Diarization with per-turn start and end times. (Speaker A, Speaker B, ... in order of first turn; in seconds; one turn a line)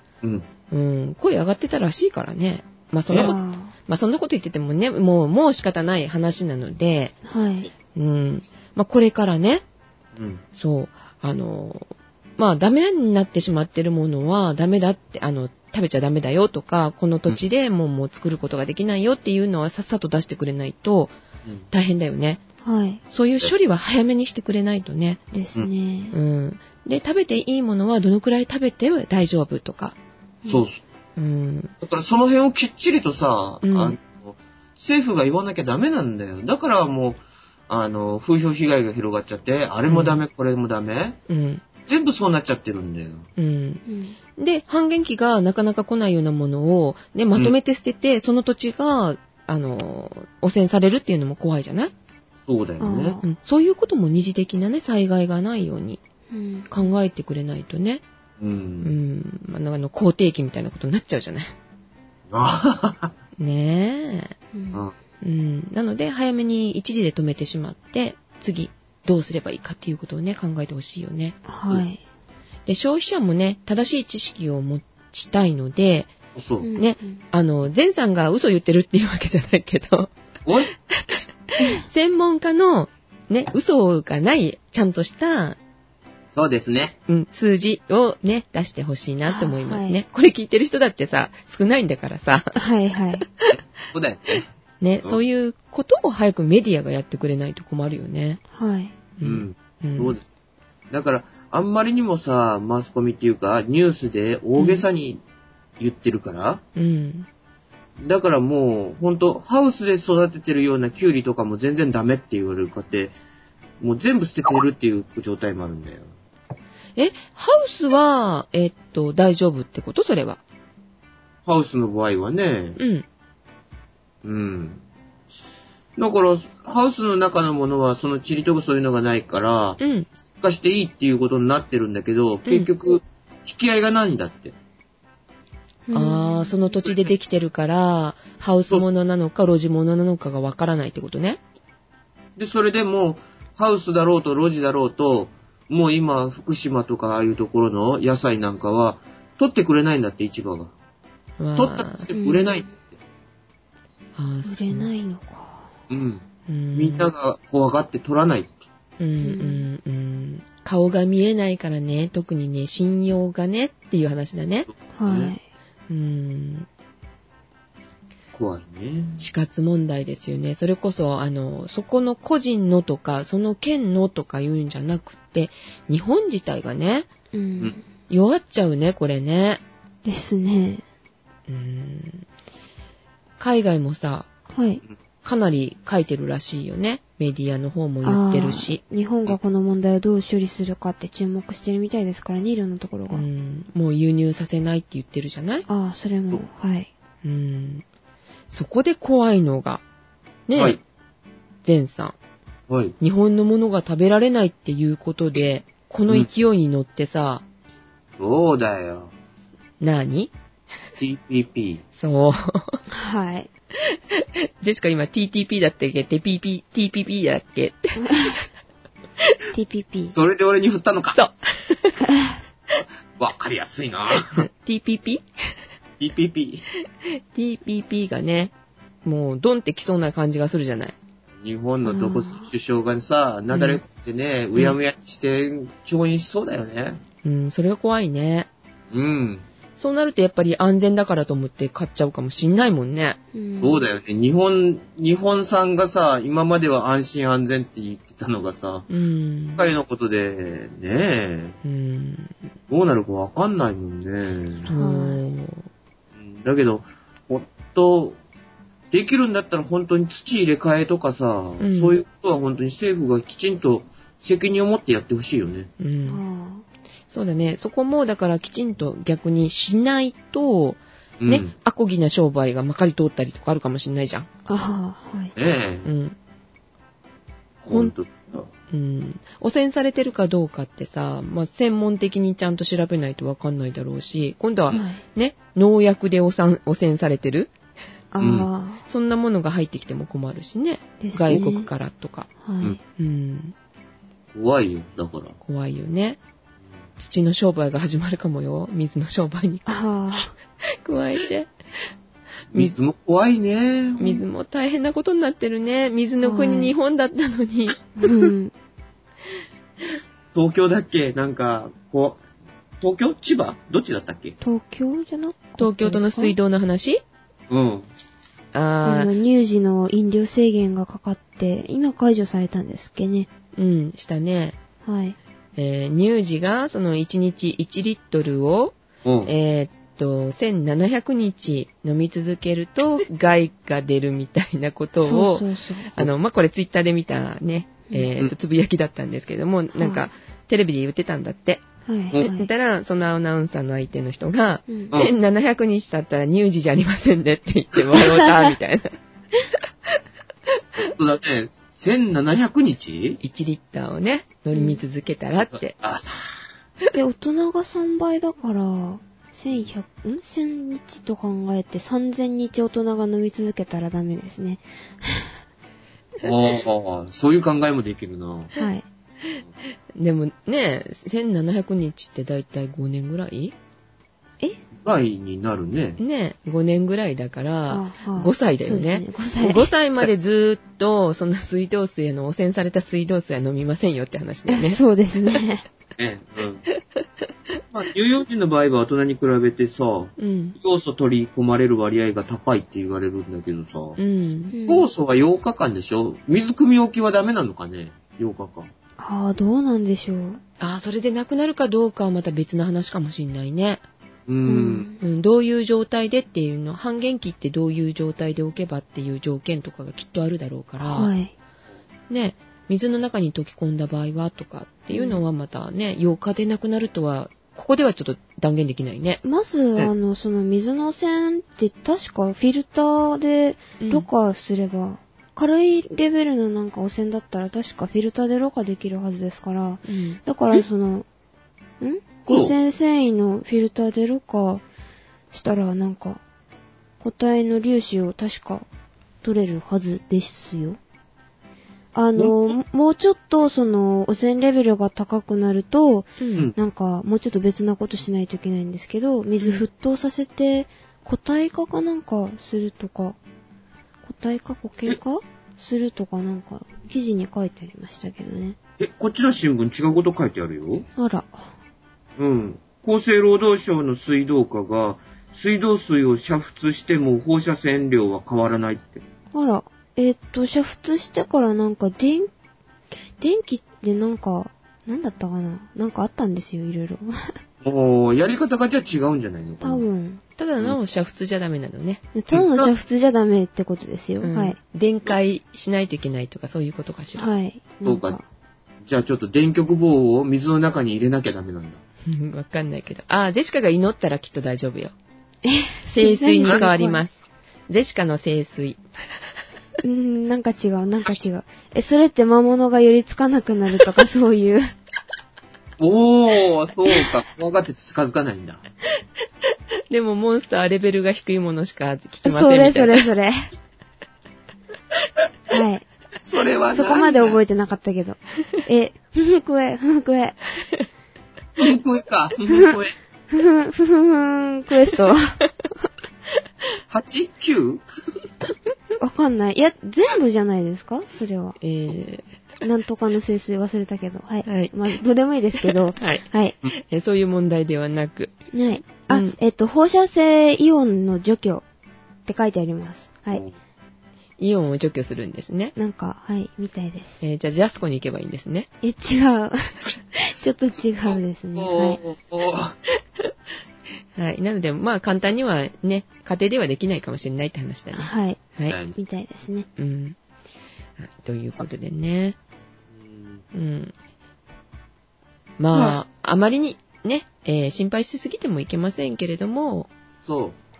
Speaker A: 0.2-0.5
Speaker B: 0.7-7.2
Speaker C: 3.1-3.7
Speaker C: 7.2-7.7
Speaker B: 7.9-9.6
Speaker A: 10.2-10.4
Speaker B: 10.5-21.1
Speaker B: 21.7-22.4
Speaker C: 22.6-23.0
Speaker B: 23.1-25.2
Speaker C: 25.3-26.1
Speaker B: 26.1-29.9
Speaker A: 30.4-30.8
Speaker B: 31.2-31.7
Speaker A: 31.8-41.2
Speaker B: 33.6-34.0
Speaker B: 39.9-40.2
Speaker B: 41.3-41.6
Speaker A: 41.8-43.3
Speaker B: 43.4-43.8
Speaker C: 43.9-44.2
Speaker B: 44.4-51.9
Speaker A: 52.5-53.2
Speaker C: 52.8-53.2
Speaker B: 53.2-56.0
Speaker C: 56.3-56.9
Speaker B: 56.7-58.0
Speaker A: 58.4-58.9
Speaker B: 58.8-61.5
Speaker A: 62.3-63.1
Speaker B: 63.4-64.3
Speaker C: 64.5-64.8
Speaker B: 65.2-71.4
Speaker C: 71.5-72.0
Speaker B: 72.7-76.1
Speaker A: 76.3-76.7
Speaker C: 76.6-77.2
Speaker B: 76.8-80.1
Speaker A: 80.5-80.7
Speaker B: 80.9-85.6
Speaker A: 86.3-87.0
Speaker B: 87.1-92.6
Speaker C: 89.3-90.0
Speaker C: 92.5-93.2
Speaker A: 93.5-94.5
Speaker B: 94.8-98.4
Speaker C: 98.5-98.9
Speaker B: 99.2-100.2
Speaker A: 99.2-100.2
Speaker A: 100.9-105.2
Speaker B: 104.5-104.8
Speaker A: 105.8-106.6
Speaker B: 106.8-107.3
Speaker A: 108.0-113.1
Speaker A: 113.8-116.1
Speaker B: 117.0-120.4
Speaker A: 121.5-122.8
Speaker B: 122.8-123.0
Speaker A: 124.2-124.8
Speaker A: 126.0-134.5
Speaker B: 129.8-130.1
Speaker C: 135.9-136.8
Speaker B: 135.9-141.4
Speaker A: 142.3-150.7
Speaker B: 151.4-152.1
Speaker A: 151.6-152.9
Speaker C: 152.1-152.6
Speaker B: 154.2-154.9
Speaker C: 154.4-155.7
Speaker A: 155.9-158.6
Speaker B: 156.5-157.1
Speaker B: 159.0-164.7
Speaker C: 159.2-159.6
Speaker C: 164.9-165.4
Speaker A: 165.0-165.3
Speaker B: 165.9-166.7
Speaker A: 168.3-169.3
Speaker B: 169.2-177.1
Speaker C: 177.3-177.8
Speaker B: 178.1-179.6
Speaker C: 180.0-180.8
Speaker B: 181.5-182.2
Speaker B: 183.4-184.3
Speaker C: 184.5-184.8
Speaker B: 185.2-188.8
Speaker C: 188.0-193.2
Speaker B: 193.1-195.7
Speaker C: 195.7-196.9
Speaker B: 197.2-197.8
Speaker B: 198.5-199.8
Speaker B: 200.5-200.8
Speaker A: 200.5-200.8
Speaker B: 201.6-202.2
Speaker A: 202.7-202.9
Speaker B: 203.0-207.4
Speaker A: 208.2-209.1
Speaker B: 209.8-210.3
Speaker A: 211.0-211.8
Speaker B: 212.0-212.8
Speaker C: 212.9-213.5
Speaker B: 213.8-218.4
Speaker C: 218.0-218.4
Speaker C: 219.5-220.1
Speaker A: 220.1-221.2
Speaker B: 221.1-222.0
Speaker C: 222.0-222.4
Speaker A: 223.2-224.5
Speaker B: 224.2-225.2
Speaker A: 226.0-226.7
Speaker B: 227.0-228.5
Speaker B: 229.0-230.9
Speaker A: 231.4-237.0
Speaker C: 231.8-232.5
Speaker B: 233.5-233.8
Speaker B: 237.2-238.5
Speaker A: 238.9-239.4
Speaker B: 239.8-243.2
Speaker C: 243.3-243.8
Speaker A: 243.6-248.9
Speaker B: 248.9-249.7
Speaker A: 249.5-251.6
Speaker B: 251.6-252.4
Speaker A: 252.7-254.7
Speaker C: 254.6-255.2
Speaker B: 254.7-255.7
Speaker A: 256.2-258.2
Speaker A: 258.9-265.7
Speaker B: 261.6-262.0
Speaker B: 265.8-266.2
Speaker C: 266.1-266.6
Speaker B: 267.1-274.3
Speaker A: 271.2-271.5
Speaker C: 274.4-275.3
Speaker A: 275.4-275.9
Speaker B: 275.8-276.1
Speaker A: 277.6-278.5
Speaker B: 278.7-287.5
Speaker C: 284.7-285.0
Speaker C: 288.1-288.8
Speaker A: 288.2-288.5
Speaker B: 288.9-292.3
Speaker C: 291.0-291.7
Speaker C: 292.4-292.8
Speaker B: 292.9-293.5
Speaker A: 294.3-295.4
Speaker B: 295.4-296.2
Speaker B: 297.0-299.8
Speaker C: 299.6-300.3
Speaker B: 300.7-301.5
Speaker A: 302.5-304.2
Speaker B: 304.0-307.8
Speaker C: 306.2-306.7
Speaker C: 307.9-308.5
Speaker A: 310.3-312.2
Speaker A: 312.8-314.4
Speaker C: 314.4-316.4
Speaker B: 315.6-317.0
Speaker A: 317.5-317.9
Speaker B: 318.5-319.1
Speaker C: 318.8-323.3
Speaker B: 323.6-324.6
Speaker C: 324.8-325.2
Speaker B: 325.6-341.6
Speaker A: 329.0-329.3
Speaker C: 335.0-336.0
Speaker C: 339.8-340.1
Speaker C: 341.9-342.5
Speaker B: 342.2-349.0
Speaker C: 348.2-348.5
Speaker A: 350.9-353.2
Speaker B: 353.2-355.8
Speaker C: 354.5-354.8
Speaker A: 355.8-356.3
Speaker C: 356.9-365.3
Speaker A: 366.2-368.5
Speaker C: 368.6-368.8
Speaker B: 369.9-373.5
Speaker A: 374.8-376.0
Speaker B: 376.0-384.8
Speaker C: 377.7-379.7
Speaker C: 384.5-385.6
Speaker A: 386.0-386.6
Speaker A: 387.7-394.0
Speaker B: 390.2-390.6
Speaker B: 394.0-394.5
Speaker C: 394.5-394.9
Speaker A: 394.6-398.7
Speaker C: 399.0-400.4
Speaker B: 400.6-403.8
Speaker A: 404.3-404.9
Speaker C: 404.4-405.0
Speaker B: 405.0-411.1
Speaker C: 410.8-411.3
Speaker B: 412.1-419.2
Speaker C: 414.9-415.2
Speaker C: 419.2-431.1
Speaker B: 423.8-424.1
Speaker B: 429.9-430.2
Speaker C: 431.8-434.6
Speaker A: 432.3-432.5
Speaker C: 435.3-436.2
Speaker C: 437.0-438.6
Speaker C: 439.2-440.8
Speaker C: 441.9-453.2
Speaker A: 442.1-442.6
Speaker B: 446.2-446.5
Speaker C: 454.0-458.6
Speaker A: 458.8-460.9
Speaker C: 460.9-461.5
Speaker A: 462.2-469.0
Speaker C: 469.3-472.3
Speaker C: 473.2-477.4
Speaker A: 477.6-479.8
Speaker C: 479.6-480.2
Speaker B: 480.4-482.0
Speaker C: 482.1-484.6
Speaker A: 482.3-482.7
Speaker B: 484.2-487.2
Speaker C: 487.2-488.2
Speaker A: 487.8-488.2
Speaker A: 488.8-491.8
Speaker B: 492.1-494.9
Speaker C: 495.4-497.0
Speaker B: 495.9-497.2
Speaker B: 497.7-498.8
Speaker C: 499.8-504.7
Speaker A: 505.8-508.6
Speaker B: 509.9-513.1
Speaker C: 512.2-513.5
Speaker C: 515.5-515.9
Speaker A: 516.2-517.4
Speaker C: 516.7-520.4
Speaker A: 521.6-523.0
Speaker C: 523.3-525.4
Speaker A: 526.9-527.8
Speaker C: 529.0-531.6
Speaker B: 531.6-532.3
Speaker C: 532.6-536.6
Speaker B: 534.5-534.8
Speaker B: 535.6-538.3
Speaker C: 538.5-541.6
Speaker C: 542.2-543.4
Speaker B: 544.4-545.7
Speaker C: 545.8-547.2
Speaker B: 547.2-548.7
Speaker C: 548.8-552.0
Speaker A: 551.5-552.8
Speaker B: 554.1-558.8
Speaker C: 557.9-558.4
Speaker A: 558.7-559.0
Speaker C: 558.9-559.7
Speaker B: 559.8-560.2
Speaker B: 561.0-562.4
Speaker A: 563.0-563.4
Speaker B: 563.5-563.9
Speaker B: 565.6-569.9
Speaker A: 565.7-566.0
Speaker A: 570.2-570.6